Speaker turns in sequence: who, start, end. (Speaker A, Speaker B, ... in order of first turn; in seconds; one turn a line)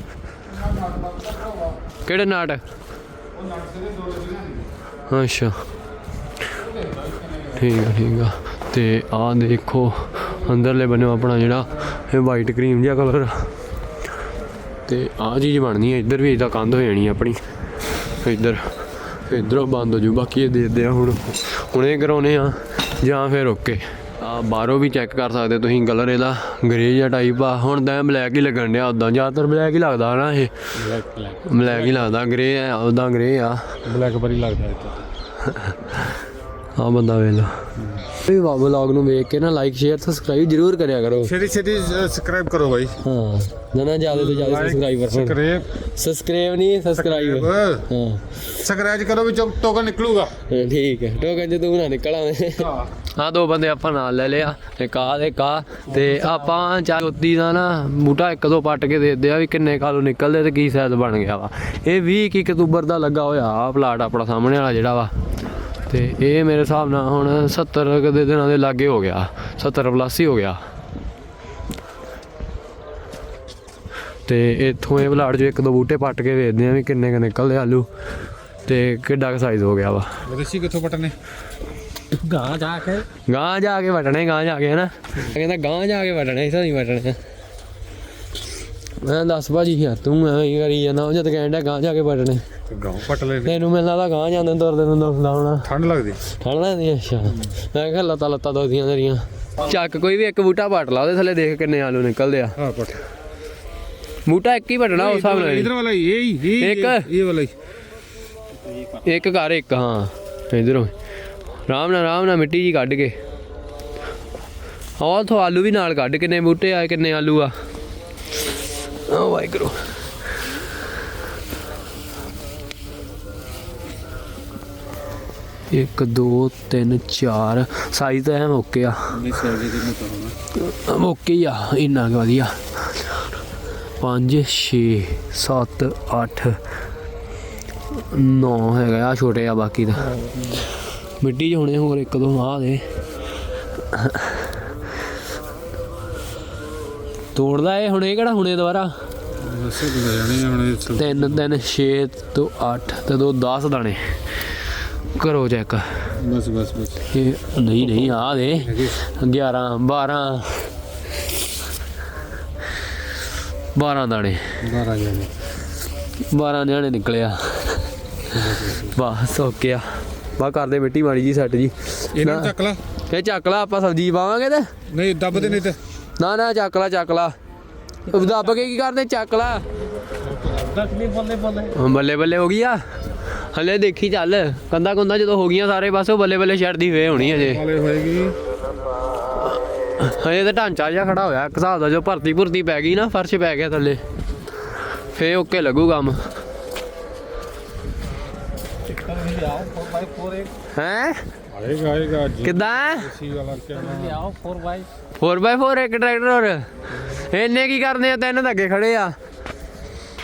Speaker A: 0.5-1.6
Speaker B: 2.0-2.6
Speaker A: 3.3-4.7
Speaker B: 5.1-5.6
Speaker A: 6.8-7.4
Speaker B: 7.5-13.5
Speaker B: 14.8-17.4
Speaker B: 18.1-30.5
Speaker A: 30.7-32.1
Speaker B: 31.4-33.8
Speaker A: 33.9-35.0
Speaker B: 35.4-36.1
Speaker B: 36.8-41.3
Speaker A: 37.8-38.0
Speaker A: 41.2-43.0
Speaker B: 43.0-48.4
Speaker A: 44.1-45.7
Speaker A: 46.9-47.9
Speaker A: 48.5-50.4
Speaker B: 50.5-65.1
Speaker A: 52.6-52.9
Speaker B: 65.9-70.6
Speaker B: 74.2-77.9
Speaker B: 78.7-80.2
Speaker A: 80.2-81.2
Speaker C: 82.1-83.1
Speaker B: 83.2-87.2
Speaker B: 89.0-92.4
Speaker A: 92.7-93.6
Speaker B: 93.4-95.7
Speaker A: 95.6-96.2
Speaker B: 96.3-102.6
Speaker A: 102.5-103.0
Speaker B: 104.2-105.7
Speaker A: 104.9-107.5
Speaker B: 106.6-107.1
Speaker B: 108.9-110.9
Speaker B: 111.7-113.2
Speaker B: 115.0-117.5
Speaker B: 119.0-119.9
Speaker B: 125.7-129.2
Speaker A: 129.1-130.3
Speaker B: 130.5-133.1
Speaker B: 134.0-136.6
Speaker B: 137.9-140.3
Speaker B: 141.2-142.8
Speaker B: 143.9-144.5
Speaker B: 147.3-148.9
Speaker A: 149.3-151.5
Speaker B: 151.0-154.1
Speaker B: 155.1-156.1
Speaker A: 156.2-157.1
Speaker B: 157.1-160.7
Speaker A: 158.5-159.0
Speaker B: 163.7-164.5
Speaker A: 164.6-165.3
Speaker B: 166.3-167.9
Speaker A: 168.3-169.0
Speaker B: 168.8-172.5
Speaker A: 172.1-172.8
Speaker B: 173.1-174.7
Speaker A: 174.9-175.8
Speaker B: 176.2-177.3
Speaker B: 178.1-179.7
Speaker C: 180.2-181.7
Speaker B: 181.7-182.8
Speaker B: 183.3-187.6
Speaker A: 187.1-188.4
Speaker B: 189.9-194.0
Speaker B: 195.1-196.3
Speaker C: 198.9-200.5
Speaker B: 200.7-201.2
Speaker A: 201.5-204.2
Speaker B: 202.4-203.1
Speaker C: 203.7-204.9
Speaker B: 205.2-209.2